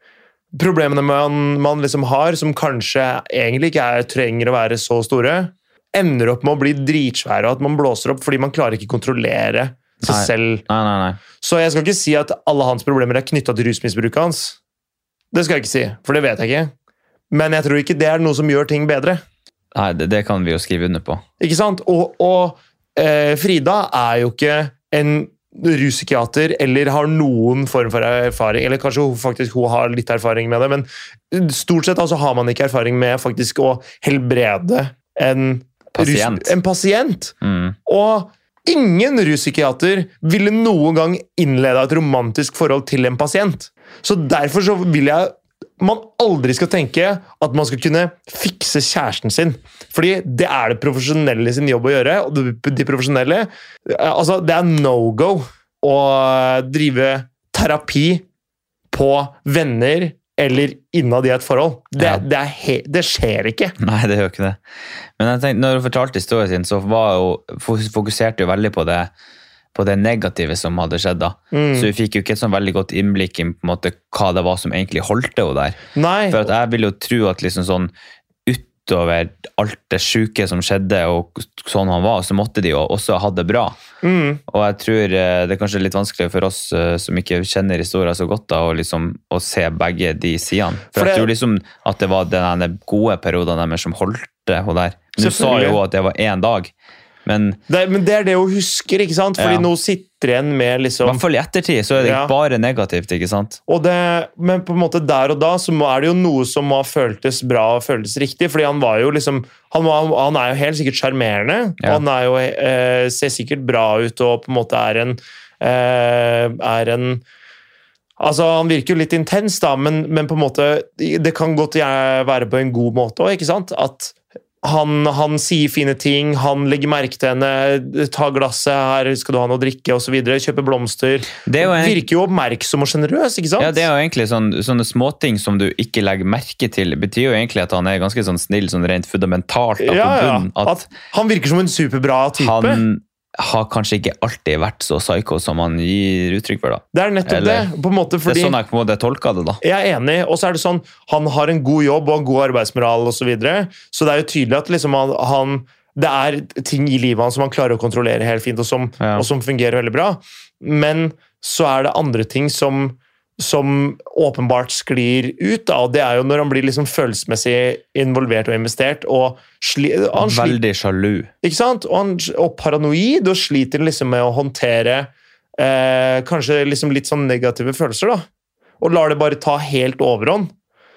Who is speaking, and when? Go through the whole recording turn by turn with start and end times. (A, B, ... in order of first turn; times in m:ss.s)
0:00.5-0:10.6 A
0:10.0-0:11.2 B
0:11.4-0:14.6 A
0:15.3-0:16.7 A
0:17.3-0:19.2 A
0:19.7-0:21.2 B
0:21.4-0:58.2 A
0:36.0-0:36.5 B
0:37.4-0:37.8 B
0:58.9-1:03.8 A
1:02.0-1:02.2 B
1:03.8-1:04.6 B
1:05.2-1:09.1 B
1:09.7-1:17.9 B
1:11.5-1:11.9 A
1:16.0-1:16.5 A
1:18.5-1:23.8 B
1:24.0-1:24.4 A
1:24.5-1:36.7 B
1:30.9-1:31.3 A
1:35.2-1:35.8 A
1:37.3-1:37.6 B
1:37.7-1:41.2 A
1:39.4-1:39.7 B
1:41.0-1:43.6 B
1:42.0-1:42.3 A
1:43.7-1:57.2 A
1:58.2-2:13.9 A
2:11.4-2:12.0 B
2:13.6-2:20.9 B
2:19.8-2:22.8 A
2:22.4-2:27.7 B
2:26.9-2:28.6 A
2:28.3-2:29.6 B
2:29.6-2:50.6 A
2:39.0-2:39.3 B
2:50.2-2:51.3 B
2:51.4-2:58.3 A
2:58.8-3:00.5 A